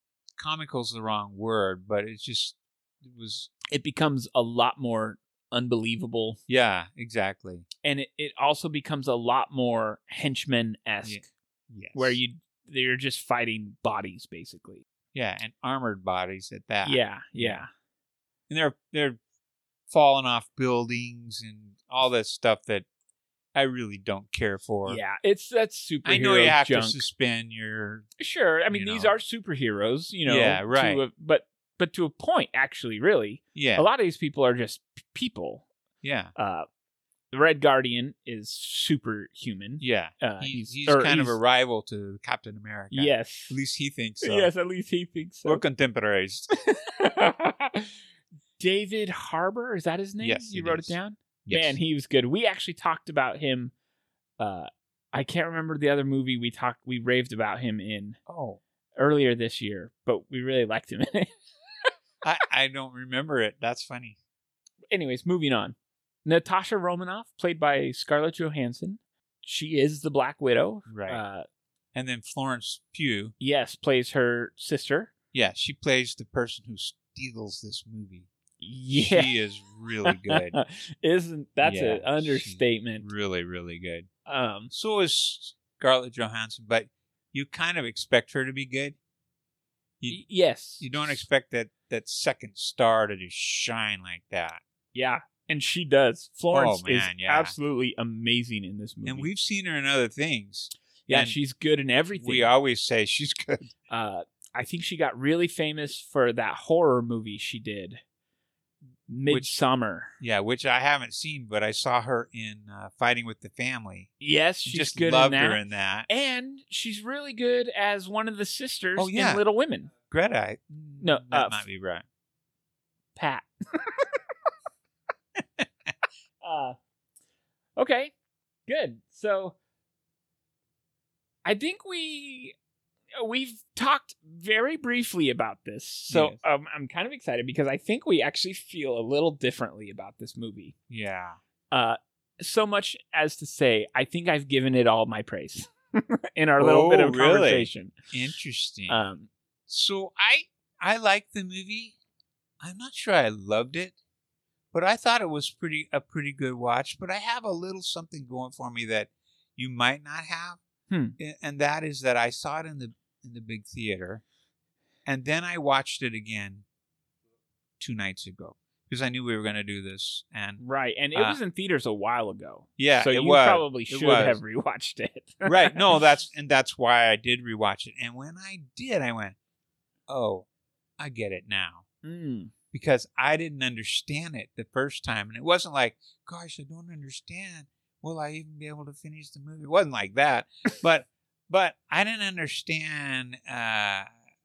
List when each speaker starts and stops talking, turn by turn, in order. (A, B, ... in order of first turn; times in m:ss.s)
0:00.4-0:03.5 A
0:03.7-0:06.4 B
0:06.5-0:07.7 A
0:07.8-0:11.3 B
0:11.0-0:12.2 A
0:11.9-0:14.8 B
0:15.1-0:17.6 A
0:16.8-0:17.7 B
0:18.5-0:19.2 A
0:19.9-0:22.9 A
0:23.6-0:25.0 A
0:24.8-0:27.0 B
0:26.0-0:28.1 A
0:28.2-0:35.7 B
0:28.7-0:29.2 A
0:30.3-0:31.0 A
0:33.6-0:33.9 A
0:36.0-0:36.3 A
0:36.4-0:36.7 B
0:37.3-0:41.4 B
0:39.8-0:44.5 A
0:42.9-0:43.6 B
0:44.2-0:45.6 B
0:45.4-0:46.5 A
0:46.7-0:47.9 B
0:48.6-0:53.7 B
0:50.2-0:51.8 A
0:54.4-0:58.2 B
0:58.3-0:58.6 A
0:59.0-1:01.3 B
1:02.2-1:04.2 A
1:04.9-1:11.5 B
1:10.9-1:11.2 A
1:11.9-1:13.3 A
1:13.4-1:15.1 B
1:15.3-1:18.3 A
1:18.6-1:19.3 B
1:18.9-1:20.6 A
1:20.1-1:23.1 B
1:21.6-1:24.1 A
1:24.3-1:24.7 B
1:24.7-1:29.0 A
1:30.1-1:31.2 B
1:30.8-1:34.6 A
1:34.9-1:39.3 B
1:36.5-1:37.6 A
1:39.0-1:41.4 A
1:41.1-1:42.5 B
1:42.2-1:43.7 A
1:43.9-1:48.0 B
1:49.1-1:50.2 B
1:50.2-1:54.1 A
1:54.2-1:59.9 B
1:54.6-1:56.1 A
1:59.0-1:59.4 A
2:00.0-2:02.0 A
2:01.0-2:01.6 B
2:03.2-2:04.1 B
2:06.4-2:06.8 B
2:07.8-2:08.1 B
2:08.7-2:09.6 B
2:11.4-2:12.6 B
2:13.2-2:20.7 B
2:16.1-2:16.4 A
2:20.9-2:21.4 A
2:21.7-2:28.0 B
2:26.6-2:29.0 A
2:28.9-2:29.3 B
2:29.7-2:32.0 A
2:32.6-2:34.0 A
2:34.7-2:40.6 A
2:40.9-2:41.2 B
2:41.2-2:44.2 A
2:45.1-2:46.6 A
2:47.8-2:50.6 A
2:50.6-2:55.9 B
2:51.1-2:51.4 A
2:52.8-2:54.4 A
2:55.4-2:59.4 A
3:00.1-3:00.5 A
3:01.0-3:01.8 A
3:02.0-3:02.5 B
3:02.7-3:14.1 A